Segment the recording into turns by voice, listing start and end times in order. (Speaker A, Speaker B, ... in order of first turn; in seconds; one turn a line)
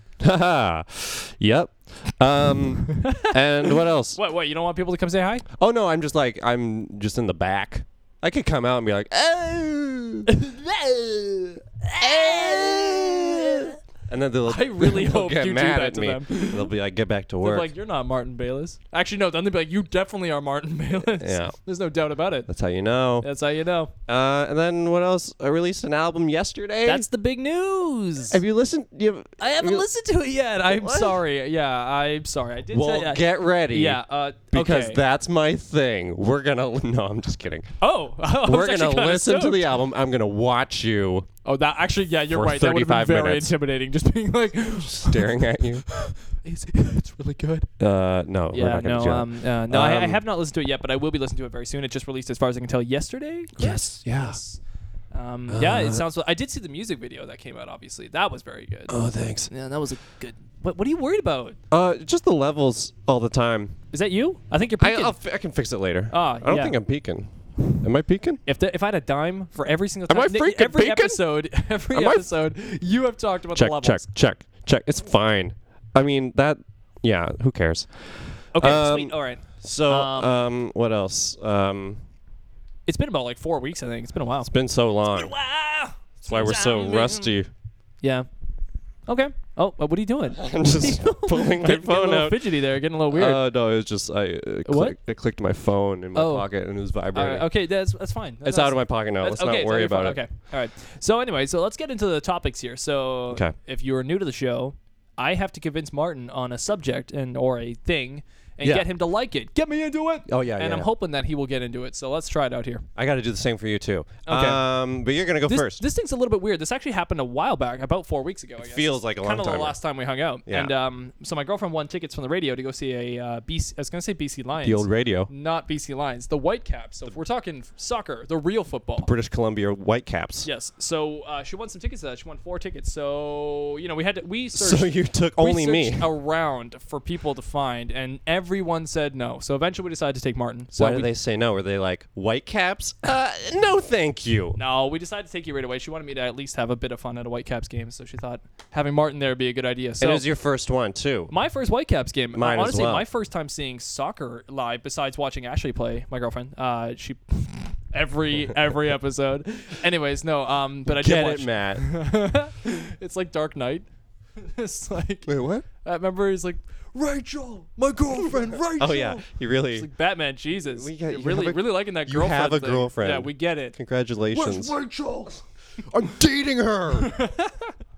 Speaker A: 0.2-4.2
Speaker B: 2.9-5.4
Speaker A: 5.6-17.7
Speaker B: 10.3-10.6
Speaker B: 11.8-13.8
Speaker B: 14.5-16.7
Speaker B: 17.4-22.5
Speaker A: 21.1-21.5
Speaker A: 22.5-23.3
Speaker B: 23.2-23.9
Speaker A: 24.1-27.1
Speaker B: 26.8-28.4
Speaker A: 28.3-29.9
Speaker B: 29.4-35.0
Speaker A: 30.7-31.2
Speaker A: 32.7-34.0
Speaker A: 34.5-37.7
Speaker B: 37.8-39.7
Speaker A: 38.4-41.3
Speaker B: 41.4-47.7
Speaker A: 42.2-43.5
Speaker A: 44.8-45.8
Speaker A: 47.8-50.2
Speaker B: 48.5-54.6
Speaker A: 53.5-54.4
Speaker B: 55.1-61.6
Speaker A: 55.5-56.0
Speaker A: 58.9-59.5
Speaker A: 61.7-63.8
Speaker B: 63.9-65.2
Speaker A: 64.8-68.4
Speaker B: 66.1-66.8
Speaker B: 68.5-74.1
Speaker A: 70.1-71.2
Speaker A: 71.9-72.2
Speaker A: 73.5-82.0
Speaker B: 78.5-80.4
Speaker B: 82.8-84.5
Speaker A: 84.5-85.3
Speaker B: 85.1-87.3
Speaker A: 86.2-87.5
Speaker B: 88.0-88.3
Speaker B: 89.1-93.4
Speaker A: 90.4-97.5
Speaker B: 94.7-95.0
Speaker B: 96.1-96.5
Speaker B: 97.1-112.8
Speaker A: 98.4-100.2
Speaker A: 110.3-110.9
Speaker A: 113.0-115.8
Speaker B: 114.2-114.6
Speaker B: 115.5-129.1
Speaker A: 118.6-119.8
Speaker A: 120.5-120.7
Speaker A: 124.6-125.3
Speaker A: 129.0-130.5
Speaker B: 130.4-141.1
Speaker A: 134.6-136.1
Speaker A: 140.8-144.6
Speaker B: 144.6-150.2
Speaker A: 150.0-151.3
Speaker B: 151.3-165.3
Speaker A: 152.3-153.0
Speaker A: 160.9-161.9
Speaker A: 165.2-165.6
Speaker B: 165.8-173.8
Speaker A: 168.1-169.9
Speaker A: 170.7-174.8
Speaker B: 174.3-175.4
Speaker A: 175.9-177.1
Speaker B: 176.9-177.7